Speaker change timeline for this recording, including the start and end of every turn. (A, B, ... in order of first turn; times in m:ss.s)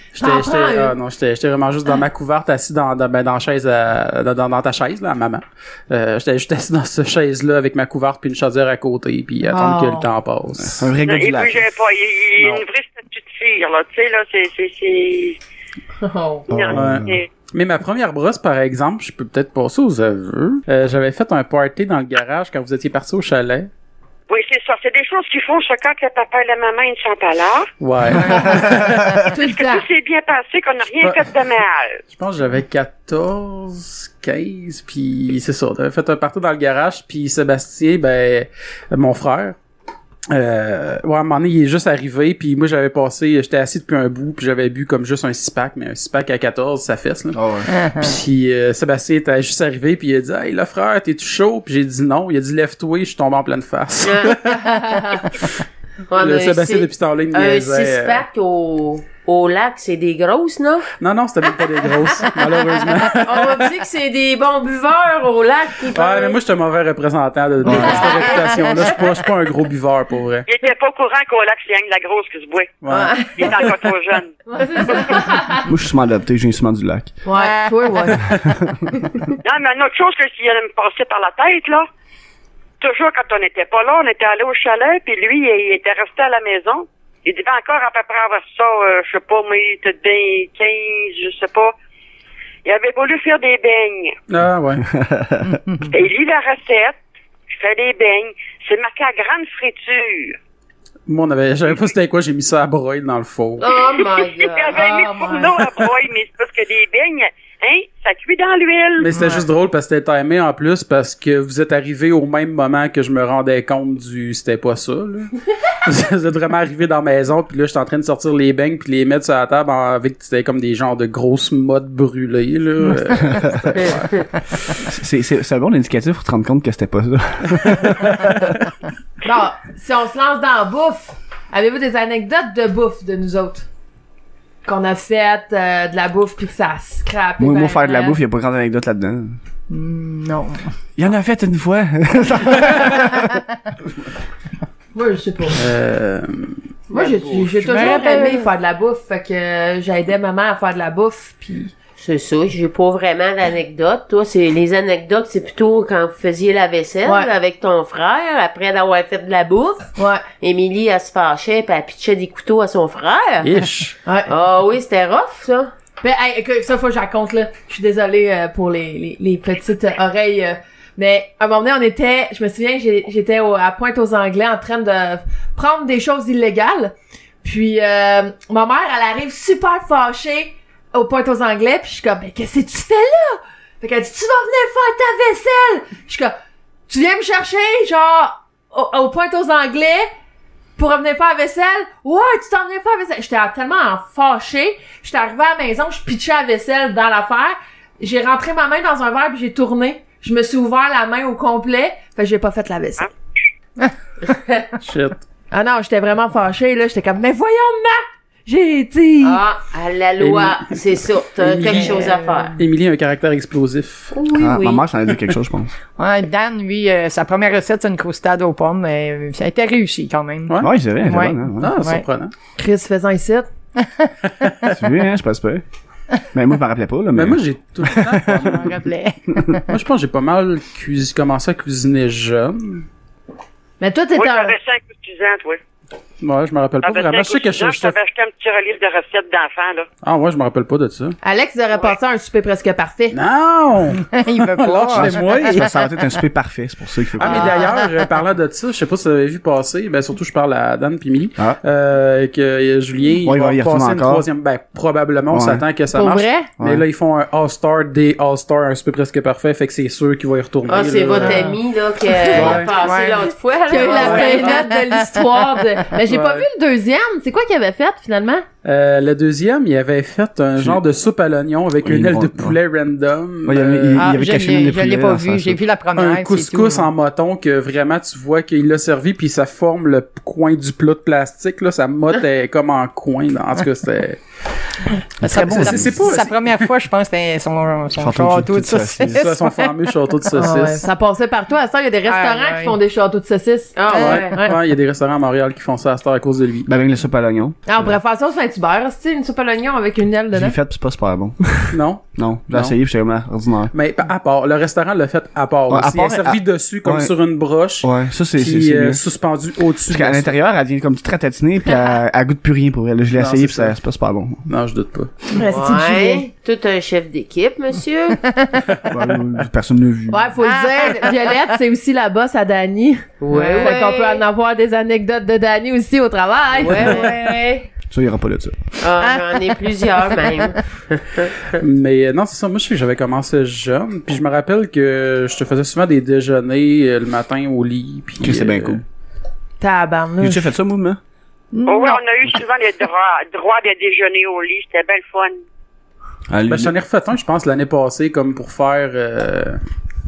0:00.2-0:10.9 A
0:00.2-0:00.9 B
0:09.5-0:10.1 B
0:10.6-0:11.6 C
0:11.0-0:15.4 D
0:12.4-0:12.6 A
0:16.0-0:16.5 B
0:16.5-0:17.2 C
0:16.5-0:17.3 D
0:16.7-0:23.7 A
0:24.3-0:27.7 D
0:27.8-0:29.3 A
0:28.3-0:28.7 B
0:29.3-0:29.9 B
0:29.3-0:32.0 D
0:31.0-0:31.3 A
0:32.1-0:39.6 A
0:40.3-0:47.4 A
0:47.3-0:47.7 C
0:47.7-0:48.1 E
0:48.0-0:55.5 A
0:54.0-0:55.0 F
0:56.1-1:00.9 F
0:56.2-0:58.2 A
1:01.0-1:03.7 A
1:03.0-1:06.4 F
1:05.9-1:10.5 A
1:07.6-1:08.4 B
1:07.7-1:08.9 F
1:10.5-1:12.8 D
1:12.8-1:13.7 A
1:12.9-1:13.6 F
1:13.3-1:15.1 D
1:14.5-1:15.7 B
1:15.7-1:17.1 C
1:17.2-1:18.3 B
1:17.4-1:18.1 E
1:18.6-1:18.9 C
1:19.4-1:21.9 D
1:22.8-1:31.7 D
1:32.6-1:34.2 D
1:34.3-1:34.9 A
1:34.9-1:35.5 C
1:35.9-1:37.0 D
1:37.5-1:40.4 D
1:41.1-1:44.0 A
1:43.6-1:45.7 F
1:44.2-1:49.2 D
1:49.0-2:04.1 A
1:49.2-1:49.4 E
2:03.2-2:03.9 C
2:04.8-2:08.5 C
2:09.2-2:13.7 B
2:14.6-2:18.2 B
2:17.4-2:19.4 C
2:19.7-2:20.7 E
2:21.0-2:23.4 C
2:24.9-2:25.6 B
2:25.6-2:26.6 A
2:26.9-2:28.4 F
2:26.9-2:31.7 B
2:27.7-2:28.4 E
2:32.0-2:43.5 F
2:37.0-2:37.3 B
2:40.0-2:40.2 B
2:43.4-2:44.0 A
2:44.3-2:45.7 F
2:46.0-3:06.4 B
3:06.9-3:10.1 B
3:10.8-3:23.1 B
3:24.2-3:24.7 F
3:24.8-3:25.2 A
3:25.5-3:29.4 B
3:29.2-3:32.5 F
3:30.2-3:30.8 A
3:31.4-3:32.0 A
3:31.7-3:32.5 E
3:32.6-3:34.1 A
3:34.1-3:34.8 F
3:34.3-3:35.7 C
3:36.0-3:42.0 E
3:40.6-3:41.8 C
3:41.6-3:42.3 A
3:42.6-3:43.5 B
3:43.8-3:44.1 E
3:44.7-3:45.6 C
3:46.3-3:48.7 C
3:47.2-3:48.8 A
3:48.4-3:49.6 E
3:49.7-3:52.9 A
3:53.8-3:54.6 B
3:54.2-3:55.6 D
3:56.2-3:58.0 A
3:56.8-3:59.9 D
4:00.0-4:01.2 A
4:01.2-4:03.2 B
4:03.1-4:05.7 A
4:04.0-4:05.8 E
4:04.9-4:07.6 C
4:07.2-4:21.5 A
4:07.2-4:08.0 E
4:13.2-4:14.2 C
4:15.3-4:15.6 C
4:15.9-4:16.5 B
4:20.7-4:24.6 F
4:21.2-4:21.6 B
4:22.1-4:22.6 B
4:22.3-4:22.7 A
4:22.4-4:23.3 E
4:23.7-4:28.4 B
4:24.0-4:25.2 E
4:24.0-4:24.4 A
4:26.1-4:26.5 A
4:28.6-4:34.1 A
4:31.8-4:32.6 C
4:33.4-4:35.6 C
4:34.0-4:36.9 E
4:36.0-4:44.2 A
4:45.2-4:46.0 C
4:45.2-4:49.7 E
4:45.3-4:46.7 A
4:48.0-4:49.2 C
4:49.2-4:50.8 A
4:50.4-4:54.6 B
4:52.1-4:52.8 E
4:53.8-4:54.4 F
4:53.9-4:56.7 A
4:56.7-4:58.0 C
4:57.7-5:00.6 B
5:00.3-5:03.7 C
5:01.7-5:02.8 A
5:03.7-5:10.3 A
5:05.7-5:07.1 C
5:07.8-5:09.0 C
5:09.9-5:14.4 C
5:13.2-5:13.7 A
5:14.5-5:15.1 A
5:15.4-5:16.2 B
5:15.4-5:18.2 F
5:18.9-5:20.3 C
5:20.1-5:27.1 B
5:20.4-5:21.2 E
5:23.2-5:24.2 F
5:23.3-5:23.8 E
5:26.5-5:27.7 F
5:27.9-5:28.6 C
5:28.8-5:31.6 F
5:29.0-5:29.3 E
5:31.6-5:38.8 A
5:38.2-5:38.8 C
5:39.6-5:40.5 B
5:40.2-5:41.0 C
5:41.5-5:42.0 E
5:41.7-5:45.4 D
5:46.3-5:46.7 C
5:46.5-5:49.6 A